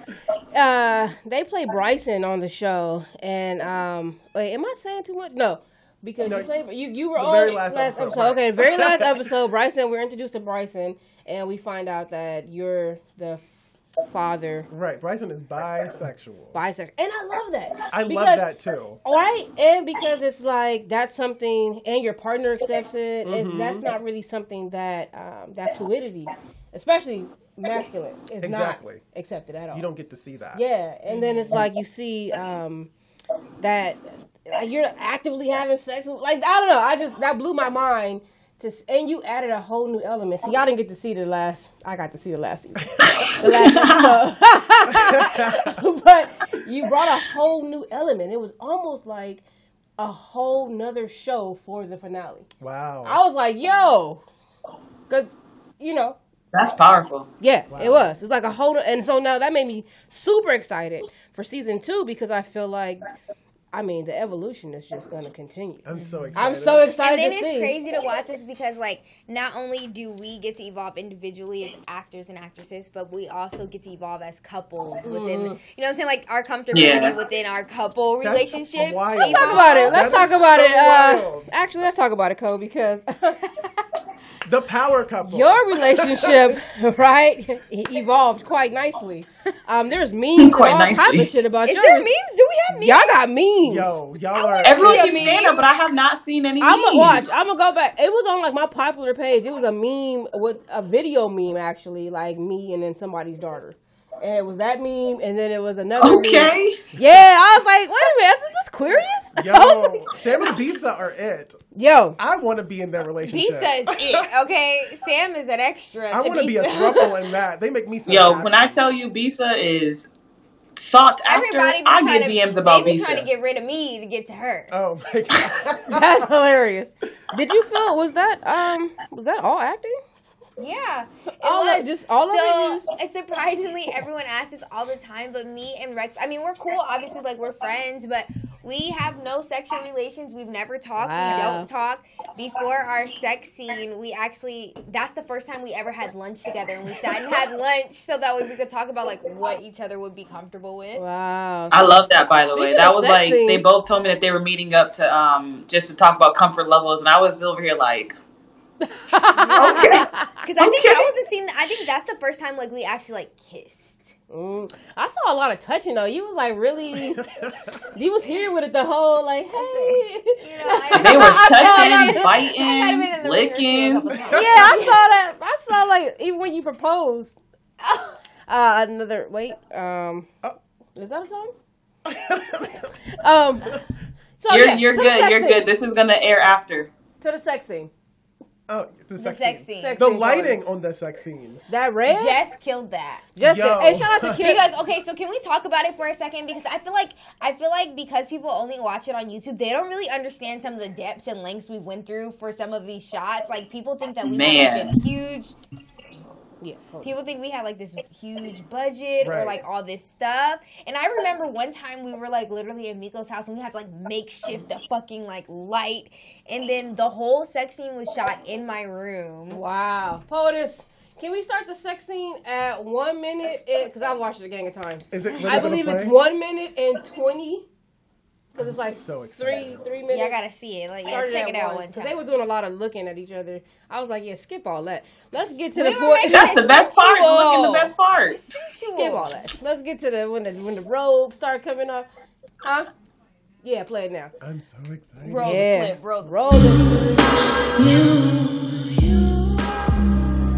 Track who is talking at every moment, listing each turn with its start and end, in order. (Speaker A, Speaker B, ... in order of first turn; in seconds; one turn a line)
Speaker A: 0.5-13.4
Speaker B: 6.2-6.5
Speaker B: 7.2-9.3
Speaker A: 14.0-14.7
Speaker B: 14.7-16.6
Speaker A: 16.5-18.4
Speaker B: 17.9-19.0
Speaker A: 19.0-29.9
Speaker B: 23.2-23.9
Speaker B: 28.4-29.0
Speaker B: 29.7-30.6
Speaker A: 30.5-32.9
Speaker A: 33.6-49.4
Speaker C: 43.1-44.1
Speaker B: 44.9-45.8
Speaker A: 50.0-52.5
Speaker B: 52.6-53.2
Speaker A: 53.0-54.2
Speaker A: 55.1-56.2
Speaker C: 56.5-57.3
Speaker A: 57.4-63.0
Speaker B: 57.7-58.1
Speaker A: 63.7-67.8
Speaker B: 65.8-66.9
Speaker D: 67.0-80.2
Speaker A: 75.0-75.6
Speaker C: 76.7-77.2
Speaker B: 78.2-81.5
Speaker A: 79.2-83.4
Speaker B: 84.4-86.5
Speaker A: 85.2-92.1
Speaker C: 90.3-91.3
Speaker D: 91.6-93.2
Speaker A: 92.7-94.0
Speaker B: 93.6-95.5
Speaker D: 94.3-95.6
Speaker C: 94.6-97.3
Speaker A: 96.6-110.1
Speaker C: 106.0-106.8
Speaker B: 109.3-111.6
Speaker A: 111.7-112.2
Speaker B: 112.2-114.2
Speaker D: 113.2-117.1
Speaker B: 116.1-118.8
Speaker C: 118.1-120.1
Speaker C: 120.8-123.3
Speaker D: 121.2-124.7
Speaker B: 124.7-126.3
Speaker A: 125.9-130.0
Speaker D: 130.6-151.0
Speaker A: 131.4-132.9
Speaker A: 141.0-141.7
Speaker A: 150.9-153.6
Speaker C: 151.7-158.2
Speaker A: 158.8-160.3
Speaker D: 159.3-164.1
Speaker C: 159.5-161.1
Speaker A: 164.3-167.2
Speaker B: 166.9-167.8
Speaker A: 167.9-172.2
Speaker D: 169.5-175.0
Speaker C: 171.0-174.0
Speaker B: 174.1-174.6
Speaker A: 174.3-177.3
Speaker D: 177.8-178.2
Speaker A: 178.5-180.3
Speaker A: 180.9-181.5
Speaker B: 182.0-182.9
Speaker A: 183.1-183.8
Speaker A: 184.4-185.7
Speaker C: 184.5-186.9
Speaker A: 187.2-187.9
Speaker B: 188.7-191.6
Speaker D: 189.2-190.0
Speaker A: 189.8-190.6
Speaker A: 191.7-192.4
Speaker D: 192.1-193.3
Speaker A: 193.3-194.6
Speaker B: 193.4-194.5
Speaker D: 194.4-205.6
Speaker C: 204.2-205.0
Speaker A: 206.6-207.1
Speaker D: 207.0-219.6
Speaker B: 209.2-209.6
Speaker A: 219.5-227.7
Speaker B: 225.1-226.1
Speaker A: 228.5-230.4
Speaker B: 228.6-229.9
Speaker D: 230.1-232.2
Speaker A: 231.0-236.5
Speaker D: 235.7-239.4
Speaker C: 236.3-238.4
Speaker A: 238.8-242.1
Speaker A: 242.6-242.9
Speaker A: 243.6-244.3
Speaker B: 244.4-245.6
Speaker D: 245.2-246.5
Speaker A: 245.4-246.8
Speaker E: 246.5-247.2
Speaker E: 247.7-250.1